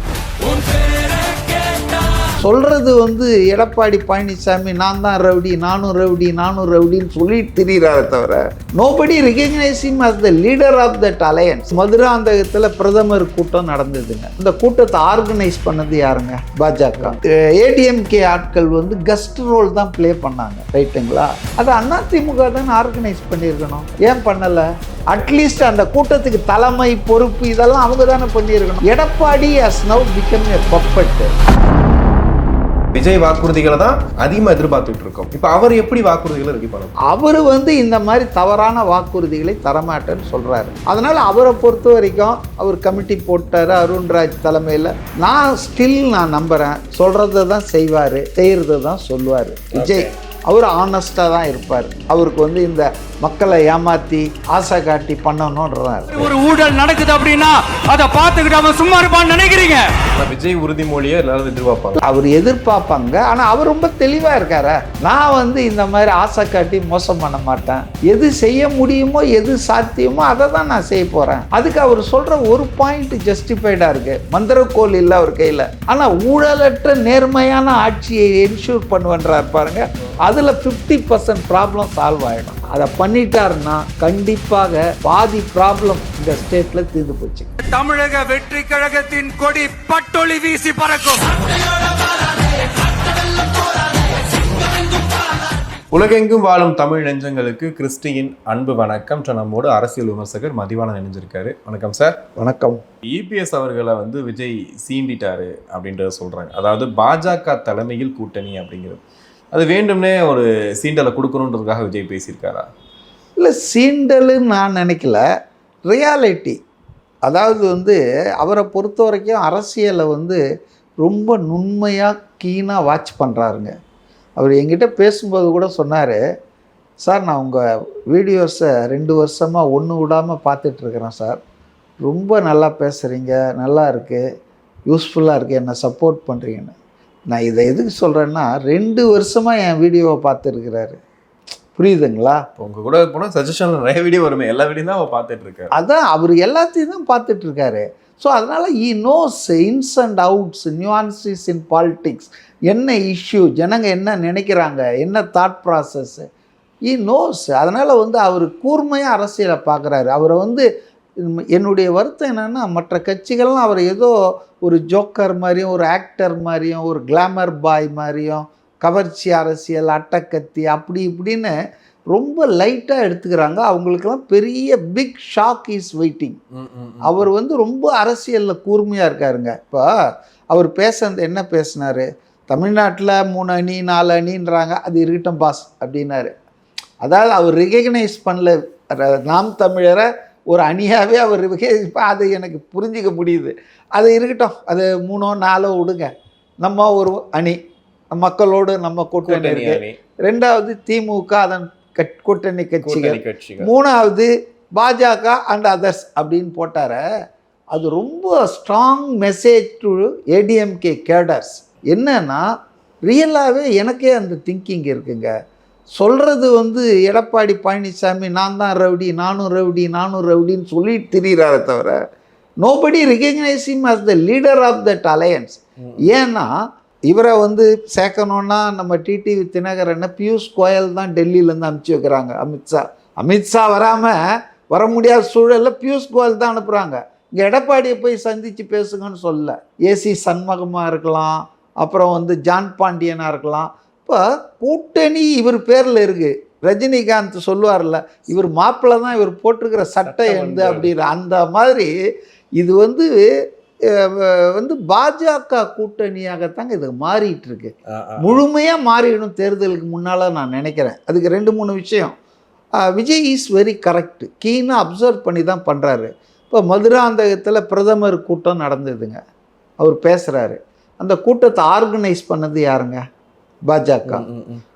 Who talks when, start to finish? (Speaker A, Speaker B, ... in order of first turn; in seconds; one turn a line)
Speaker A: 2.4-31.3
Speaker B: 32.9-36.9
Speaker A: 37.0-56.3
Speaker B: 49.7-50.1
Speaker C: 56.1-59.9
Speaker B: 60.2-62.0
Speaker A: 62.0-87.5
Speaker C: 87.6-91.5
Speaker C: 93.3-94.0
Speaker B: 95.9-102.2
Speaker A: 102.3-102.8
Speaker B: 103.0-112.7
Speaker A: 113.4-115.2
Speaker A: 115.9-116.6
Speaker A: 117.2-120.4
Speaker A: 121.0-123.7
Speaker A: 124.4-126.2
Speaker A: 127.0-131.4
Speaker A: 132.0-134.2
Speaker A: 134.9-136.7
Speaker A: 137.3-141.0
Speaker A: 141.8-142.4
Speaker B: 142.6-145.7
Speaker A: 145.7-156.3
Speaker A: 156.9-160.6
Speaker A: 161.2-171.5
Speaker A: 172.1-176.4
Speaker B: 176.5-177.3
Speaker A: 177.0-179.9
Speaker A: 180.5-186.3
Speaker A: 187.0-197.6
Speaker A: 198.1-207.0
Speaker B: 199.2-200.0
Speaker B: 202.8-203.7
Speaker A: 207.7-212.4
Speaker A: 213.1-215.3
Speaker A: 215.9-222.0
Speaker A: 222.6-226.5
Speaker A: 227.1-251.9
Speaker B: 250.0-250.9
Speaker A: 252.6-253.3
Speaker A: 253.9-262.1
Speaker B: 257.9-258.4
Speaker A: 262.8-269.2
Speaker A: 269.8-273.0
Speaker A: 273.7-274.2
Speaker B: 274.1-274.6